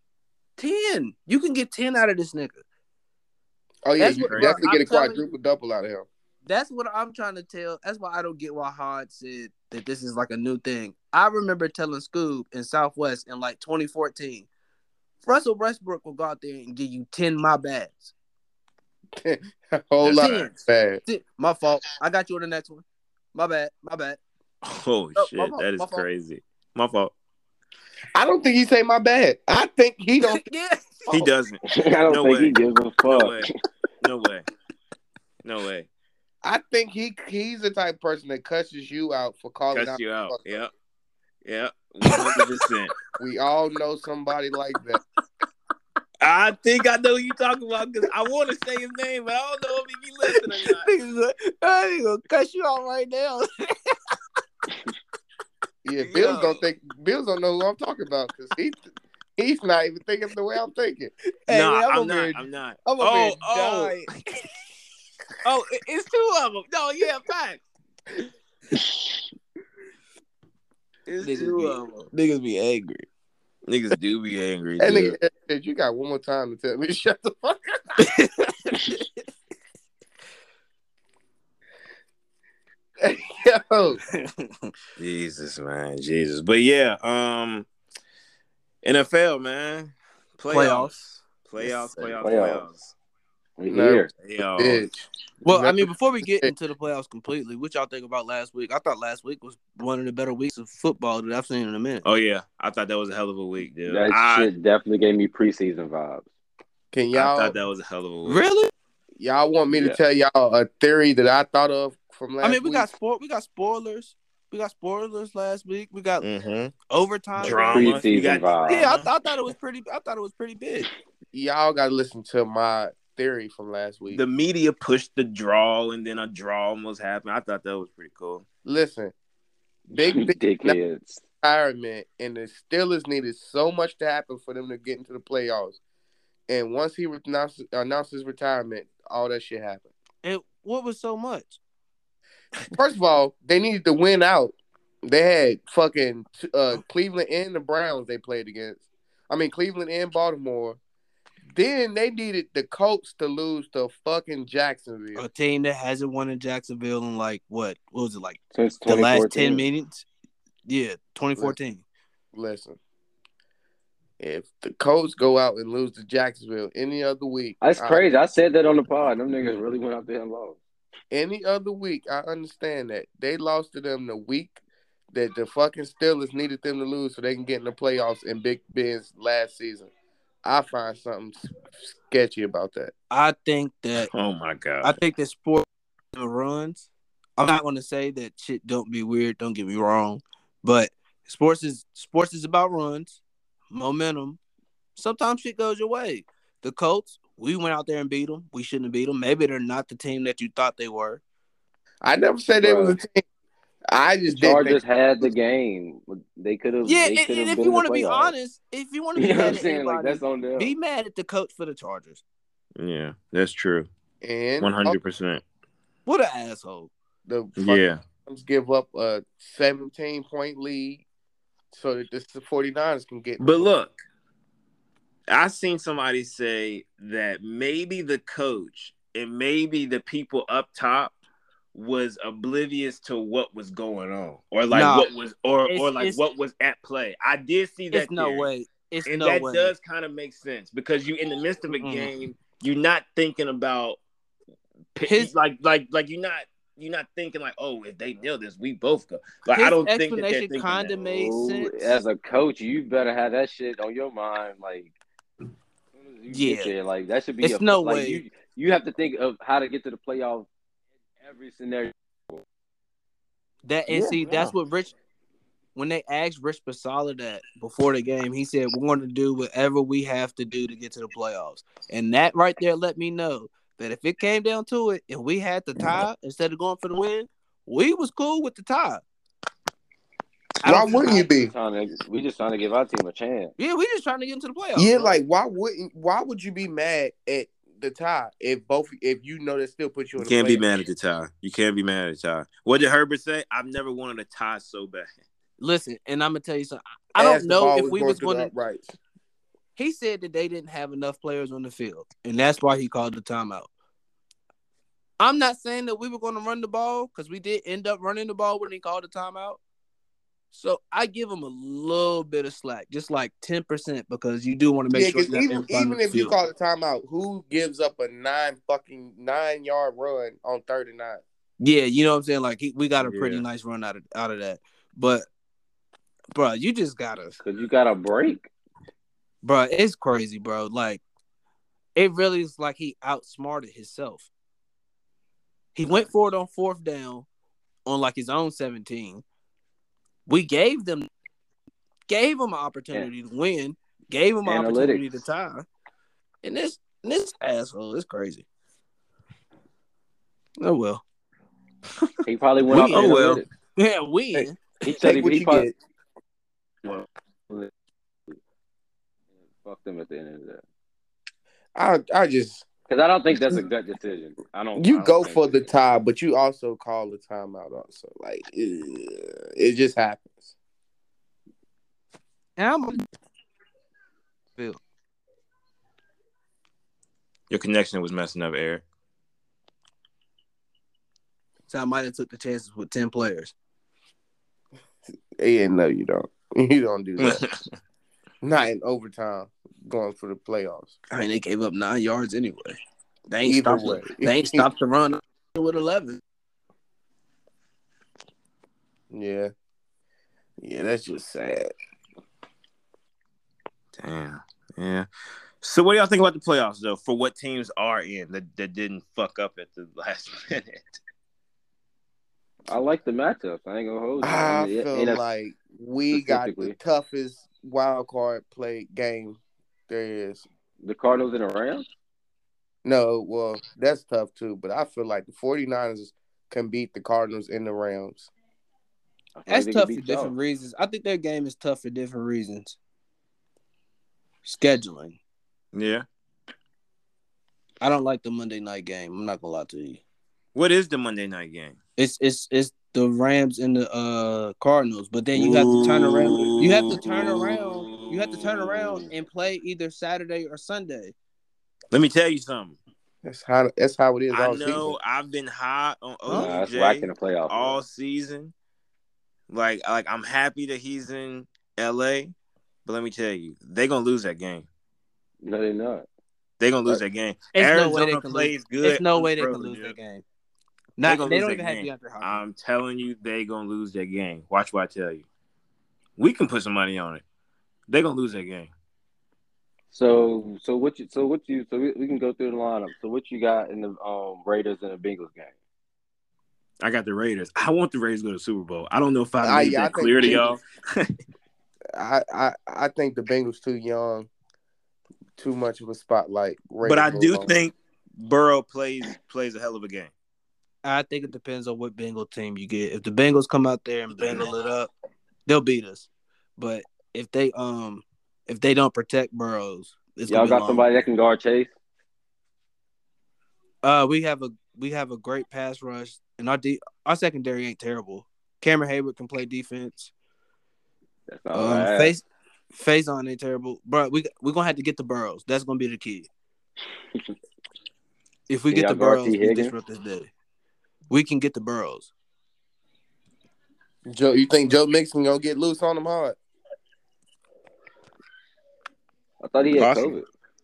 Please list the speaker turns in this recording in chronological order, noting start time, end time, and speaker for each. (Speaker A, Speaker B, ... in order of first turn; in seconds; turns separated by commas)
Speaker A: 0.6-2.6, Speaker B: 3.9-6.1, Speaker A: 4.0-5.2, Speaker C: 4.3-4.6, Speaker A: 6.5-14.5, Speaker A: 15.2-18.1, Speaker B: 19.2-21.0, Speaker C: 20.0-20.5, Speaker A: 20.1-20.6, Speaker A: 21.1-24.2, Speaker C: 24.6-27.1, Speaker A: 25.2-26.1, Speaker B: 28.1-30.4, Speaker A: 30.2-31.3, Speaker C: 31.1-33.5, Speaker D: 31.7-33.5, Speaker C: 34.0-34.5, Speaker C: 35.4-35.9, Speaker B: 36.4-40.6, Speaker C: 39.7-40.7, Speaker C: 41.4-42.9, Speaker A: 42.1-42.4, Speaker B: 43.2-45.0, Speaker C: 46.2-50.9, Speaker A: 50.6-54.1, Speaker B: 55.8-58.9, Speaker C: 56.0-56.6, Speaker B: 59.4-61.1, Speaker A: 61.5-64.0, Speaker C: 61.5-64.1, Speaker C: 65.5-67.6, Speaker C: 71.1-73.1, Speaker A: 71.2-72.1, Speaker C: 73.7-75.2, Speaker B: 74.8-77.8, Speaker A: 78.0-79.2, Speaker B: 83.0-84.0, Speaker A: 84.2-84.7, Speaker C: 85.0-87.7, Speaker C: 88.8-90.9, Speaker A: 90.5-91.9, Speaker C: 91.5-92.9, Speaker D: 92.2-92.6, Speaker D: 93.6-94.1, Speaker B: 93.7-96.5, Speaker C: 94.2-94.9, Speaker A: 95.5-102.1, Speaker C: 102.0-104.5, Speaker D: 103.9-106.3, Speaker B: 106.9-107.6, Speaker C: 107.1-108.4, Speaker A: 108.3-108.7, Speaker B: 109.2-112.9, Speaker D: 109.7-110.0, Speaker A: 112.4-116.3, Speaker C: 116.2-116.8, Speaker A: 116.9-118.0, Speaker C: 117.4-119.1, Speaker D: 117.7-118.9, Speaker A: 118.7-120.9, Speaker B: 121.3-124.2, Speaker C: 124.1-128.4, Speaker B: 128.7-129.1, Speaker B: 129.9-130.8, Speaker D: 129.9-131.2, Speaker B: 131.4-135.8, Speaker B: 136.5-139.9, Speaker A: 140.2-141.6, Speaker B: 142.7-150.8, Speaker B: 151.5-155.2, Speaker A: 155.2-160.1, Speaker D: 158.5-159.7, Speaker A: 160.7-161.8, Speaker B: 162.3-162.8, Speaker B: 164.2-168.0, Speaker D: 167.6-170.6, Speaker B: 171.1-174.6, Speaker B: 175.1-179.9, Speaker B: 180.4-182.9, Speaker A: 183.1-184.1, Speaker C: 184.0-185.0, Speaker A: 184.8-193.2, Speaker A: 193.7-194.4, Speaker A: 195.0-201.2, Speaker B: 202.0-203.2, Speaker D: 202.6-203.0, Speaker B: 203.9-205.3, Speaker D: 204.3-208.3, Speaker A: 206.8-212.2, Speaker D: 209.2-210.7, Speaker C: 212.8-213.9, Speaker B: 214.2-215.0, Speaker C: 214.6-215.4, Speaker A: 216.1-216.9, Speaker B: 217.3-221.1, Speaker C: 217.6-218.0, Speaker B: 221.7-223.7, Speaker C: 223.4-224.0, Speaker C: 225.3-231.1, Speaker C: 231.7-238.5, Speaker A: 234.7-235.1, Speaker A: 235.7-236.2, Speaker A: 237.9-239.7, Speaker C: 239.1-244.0, Speaker A: 241.7-242.1, Speaker C: 244.9-251.0, Speaker A: 245.0-245.3, Speaker A: 249.6-252.0, Speaker D: 251.1-254.9, Speaker D: 255.9-260.5, Speaker A: 256.3-256.7, Speaker A: 257.4-258.2, Speaker D: 261.2-262.4, Speaker A: 263.6-264.9, Speaker D: 263.9-264.2, Speaker C: 264.2-264.5, Speaker A: 265.8-279.0, Speaker A: 280.6-281.2, Speaker B: 280.6-281.5, Speaker D: 280.9-283.6, Speaker A: 283.6-285.1, Speaker B: 284.8-290.7, Speaker C: 290.2-295.1, Speaker A: 295.6-298.5, Speaker B: 297.2-299.0, Speaker A: 299.8-303.7, Speaker A: 305.2-309.6, Speaker A: 310.5-316.3, Speaker B: 314.9-321.2, Speaker A: 321.6-325.3, Speaker C: 323.0-323.4, Speaker A: 326.3-327.4, Speaker D: 327.4-328.5, Speaker A: 329.4-331.0, Speaker A: 332.0-334.3, Speaker A: 335.8-337.3, Speaker A: 337.9-339.2, Speaker A: 340.3-341.1, Speaker A: 342.1-345.6, Speaker D: 344.4-345.1, Speaker A: 346.4-348.4, Speaker A: 350.6-351.0, Speaker D: 352.2-353.5, Speaker C: 352.7-353.4, Speaker A: 352.9-354.6, Speaker B: 354.3-355.8, Speaker D: 354.8-355.7, Speaker D: 356.9-357.7, Speaker D: 359.5-360.6, Speaker B: 361.8-362.6, Speaker D: 362.9-365.7, Speaker B: 363.3-363.6, Speaker B: 364.8-370.5, Speaker A: 372.6-373.1, Speaker C: 377.5-378.8, Speaker A: 381.7-383.5, Speaker B: 385.4-387.4, Speaker C: 387.2-387.6, Speaker B: 388.4-390.9, Speaker A: 391.1-392.8, Speaker A: 393.3-396.2, Speaker B: 393.5-394.7, Speaker B: 399.1-399.5, Speaker B: 400.6-401.7, Speaker C: 403.9-405.1, Speaker C: 405.6-411.0, Speaker D: 412.7-415.2, Speaker B: 414.2-419.4, Speaker D: 416.1-416.8, Speaker B: 419.9-420.4, Speaker D: 420.8-421.9, Speaker B: 422.9-428.3, Speaker D: 429.4-430.3, Speaker A: 429.5-432.8, Speaker A: 434.4-435.2, Speaker C: 435.7-436.1, Speaker A: 437.8-440.0, Speaker C: 440.6-441.8, Speaker A: 442.0-451.1, Speaker C: 445.4-449.1, Speaker C: 451.9-452.8, Speaker B: 453.2-454.9, Speaker C: 454.3-458.5, Speaker A: 456.3-456.6, Speaker D: 456.3-457.8, Speaker C: 459.5-462.3, Speaker C: 462.9-464.7, Speaker D: 465.4-466.1, Speaker C: 466.6-470.0, Speaker A: 467.6-470.2, Speaker A: 471.0-472.4, Speaker C: 471.0-475.2, Speaker C: 476.2-477.2, Speaker C: 477.9-478.7, Speaker D: 479.9-485.5, Speaker C: 486.8-491.1, Speaker B: 489.4-490.5, Speaker B: 492.0-494.3, Speaker B: 495.4-497.6, Speaker C: 496.8-500.1, Speaker A: 500.8-504.9, Speaker C: 504.2-504.5, Speaker A: 505.5-510.9, Speaker D: 510.3-511.7, Speaker A: 513.8-520.1, Speaker D: 521.3-522.1, Speaker A: 521.5-526.3, Speaker A: 528.5-530.3, Speaker D: 528.7-529.8, Speaker A: 531.1-532.1, Speaker B: 534.1-536.4, Speaker D: 539.4-540.3, Speaker C: 539.8-540.2